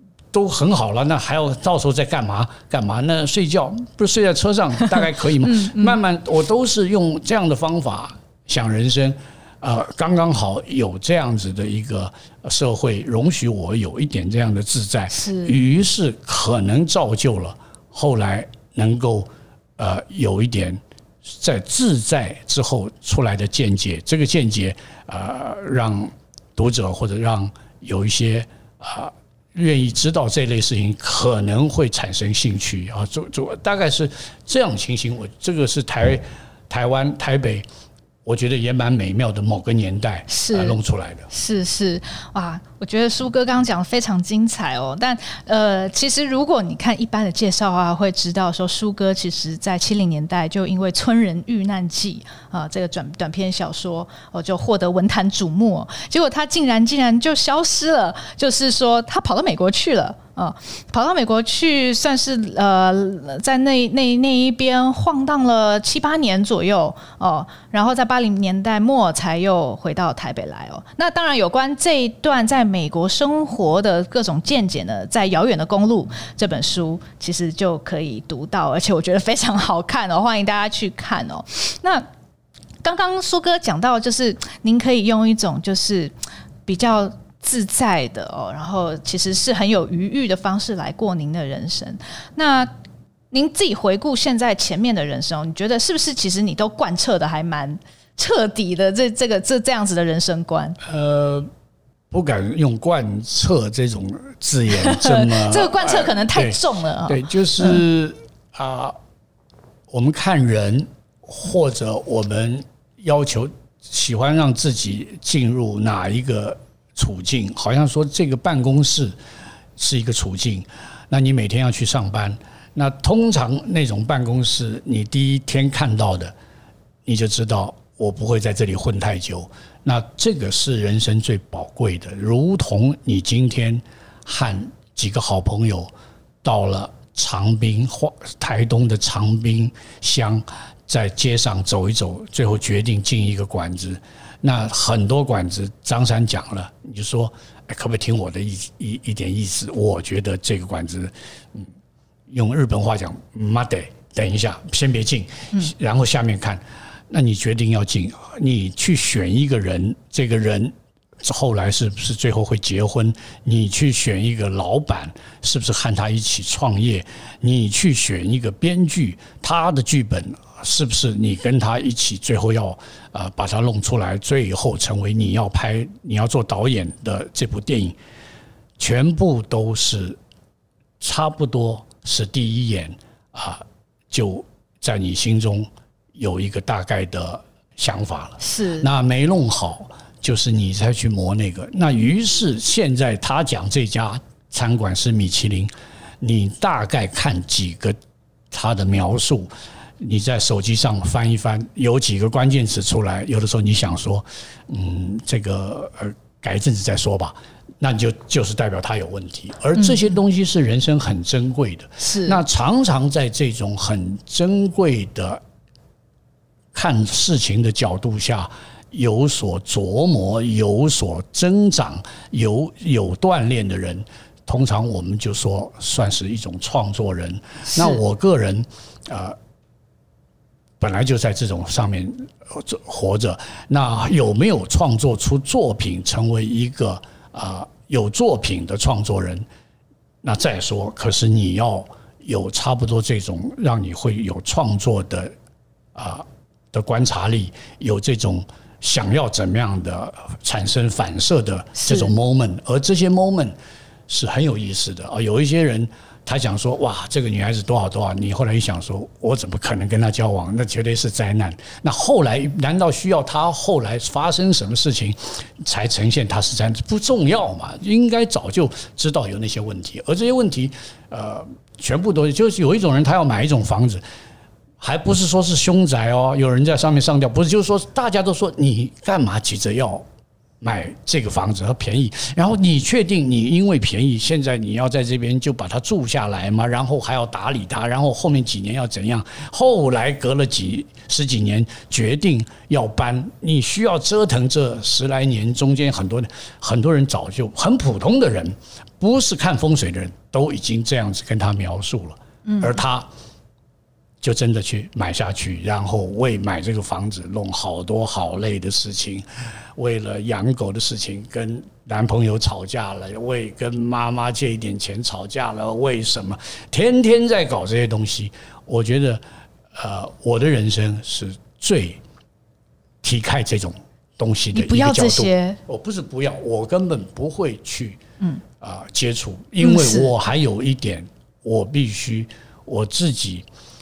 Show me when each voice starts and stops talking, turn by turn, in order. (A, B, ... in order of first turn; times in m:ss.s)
0:00.3-0:37.6 A
0:04.8-0:06.0 B
0:15.1-0:15.6 B
0:38.2-0:41.3 A
0:40.3-0:40.8 B
0:41.3-1:22.0 B
1:22.8-1:26.1 B
1:26.6-1:32.7 B
1:33.3-1:40.8 B
1:40.8-1:41.5 A
1:42.1-1:49.0 A
1:44.8-1:47.8 B
1:49.9-1:59.1 A
1:59.8-2:06.3 A
2:07.0-2:15.9 A
2:16.4-2:31.7 A
2:32.3-2:58.0 A
2:58.8-3:00.2 A
3:01.0-3:18.0 A
3:08.4-3:08.9 B
3:18.5-3:35.4 A
3:29.8-3:30.1 B
3:32.0-3:32.4 B
3:36.7-3:49.4 A
3:47.7-3:48.0 B
3:50.8-3:59.4 A
4:00.2-4:05.3 A
4:05.9-4:13.5 A
4:11.8-4:12.1 B
4:14.1-4:34.0 A
4:34.8-4:40.0 A
4:40.6-5:03.1 A
5:02.4-5:02.8 B
5:04.2-5:19.2 A
5:19.7-5:22.0 A
5:23.0-5:28.0 A
5:24.5-5:25.6 B
5:28.6-5:33.4 A
5:29.6-5:30.1 B